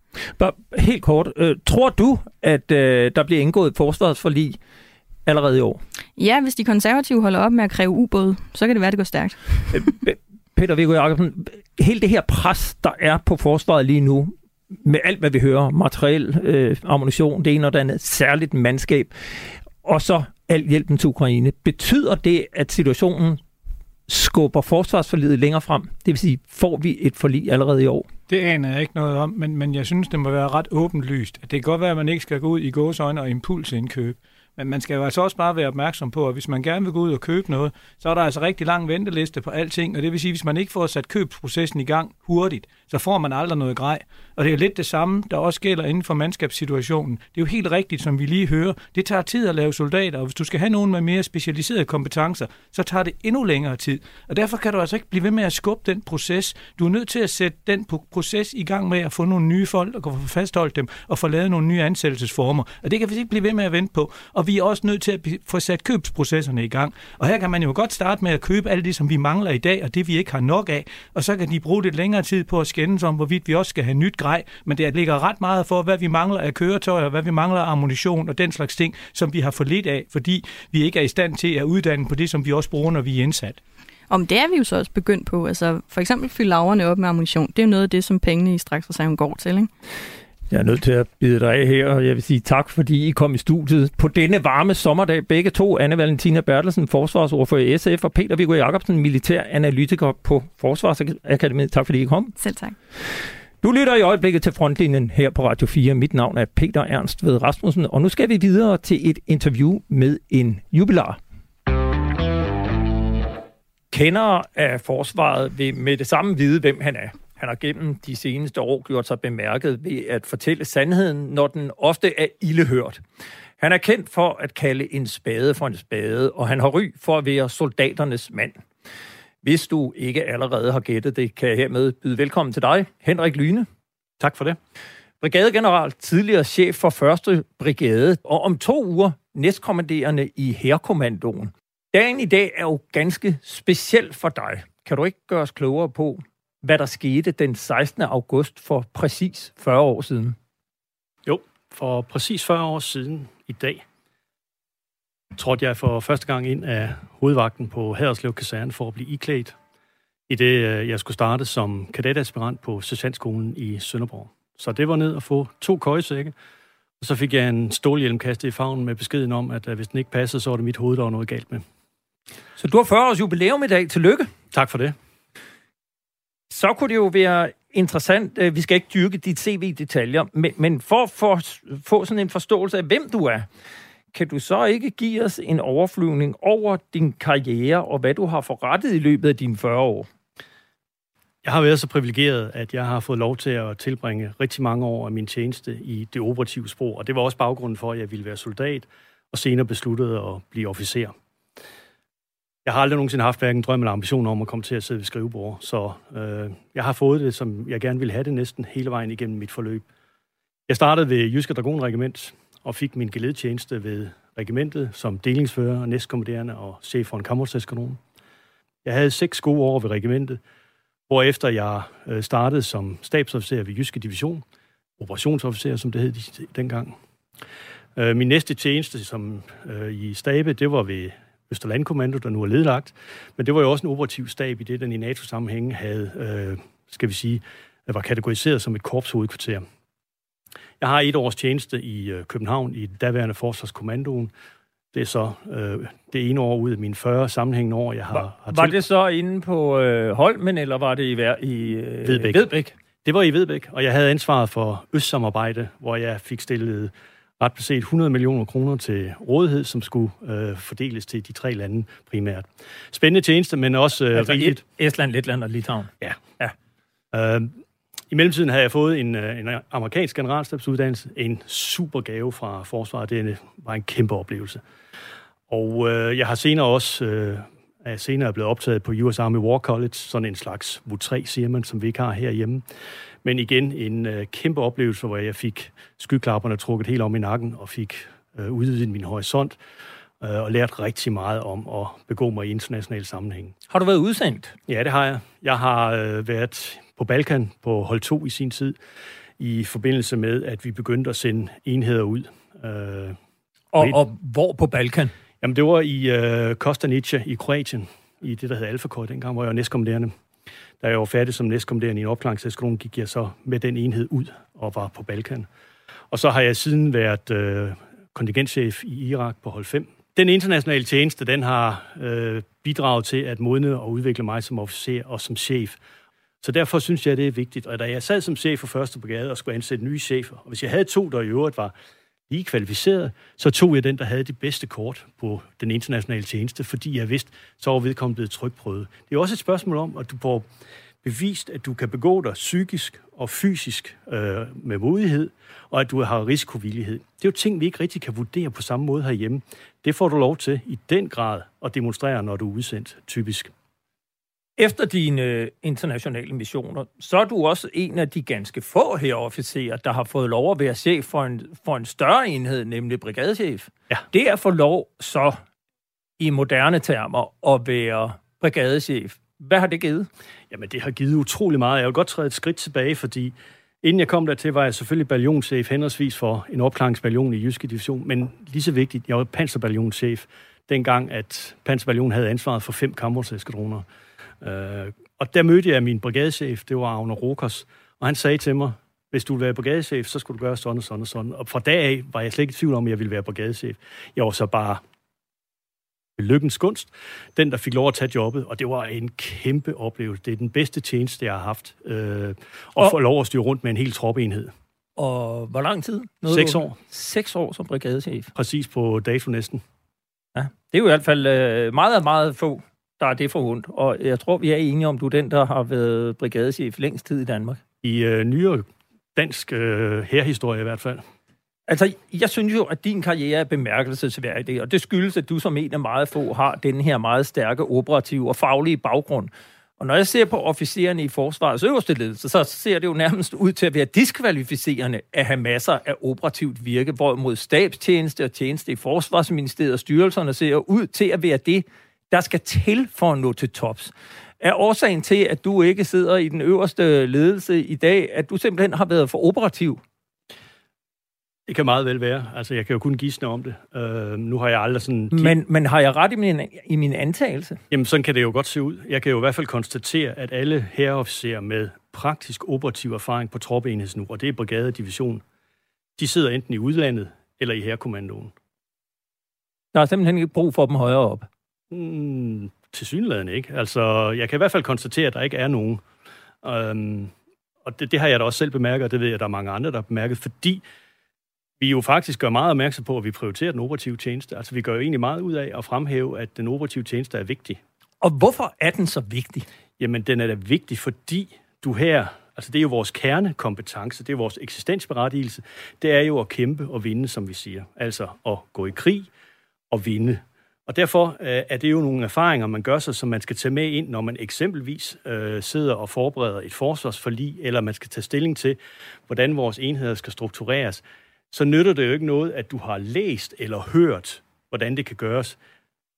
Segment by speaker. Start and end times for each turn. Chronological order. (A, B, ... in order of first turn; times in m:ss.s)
0:00.4-0:04.6 A
0:05.2-0:05.8 A
0:06.2-0:09.7 B
0:09.7-0:14.3 A
0:14.8-0:23.4 A
0:24.1-0:28.1 A
0:28.3-1:23.6 C
1:24.1-1:29.7 B
1:30.5-1:42.3 A
1:42.4-1:42.7 B
1:43.6-1:51.2 A
1:53.9-2:03.0 A
2:03.6-2:08.6 A
2:09.4-2:13.7 A
2:14.2-2:14.6 D
2:15.2-2:30.4 A
2:31.2-2:33.8 D
2:35.4-2:39.5 D
2:40.3-2:46.3 D
2:47.0-2:51.6 D
2:52.6-2:54.3 A
2:54.5-2:54.9 D
2:56.5-3:03.4 A
3:04.1-3:10.1 A
3:11.4-3:21.1 D
3:22.6-3:29.8 D
3:30.7-3:38.0 D
3:38.8-3:40.4 D
3:41.1-3:44.4 D
3:45.0-3:46.9 D
3:48.0-3:59.6 D
4:00.8-4:04.3 D
4:04.9-4:08.7 D
4:08.1-4:12.6 A
4:12.0-4:24.6 D
4:24.1-4:26.5 A
4:27.1-4:27.5 D
4:28.1-4:34.6 D
4:35.5-4:42.6 D
4:43.2-4:49.6 D
4:50.2-4:53.5 D
4:53.7-4:54.5 A
4:54.7-4:58.8 D
4:59.4-5:03.2 D
5:03.7-5:05.1 A
5:05.4-5:10.1 D
5:10.8-5:15.5 D
5:16.1-5:25.8 D
5:26.4-5:31.7 D
5:32.3-5:40.5 D
5:41.0-5:53.5 D
5:54.6-6:05.4 A
6:06.2-6:10.1 A
6:10.5-6:23.8 D
6:24.4-6:34.8 D
6:36.2-6:44.5 D
6:45.0-6:48.3 A
6:46.3-6:46.8 D
6:48.3-6:49.6 D
6:50.3-6:57.6 A
6:57.8-7:01.0 D
7:01.7-7:29.8 A
7:31.5-7:35.4 D
7:35.1-7:37.6 A
7:37.7-7:45.2 D
7:46.0-7:48.3 D
7:49.7-7:51.3 A
7:51.7-7:55.8 D
7:56.4-7:57.1 D
7:57.6-8:00.6 D
8:01.6-8:07.6 D
8:08.0-8:09.4 A
8:09.8-8:19.1 D
8:19.7-8:35.4 D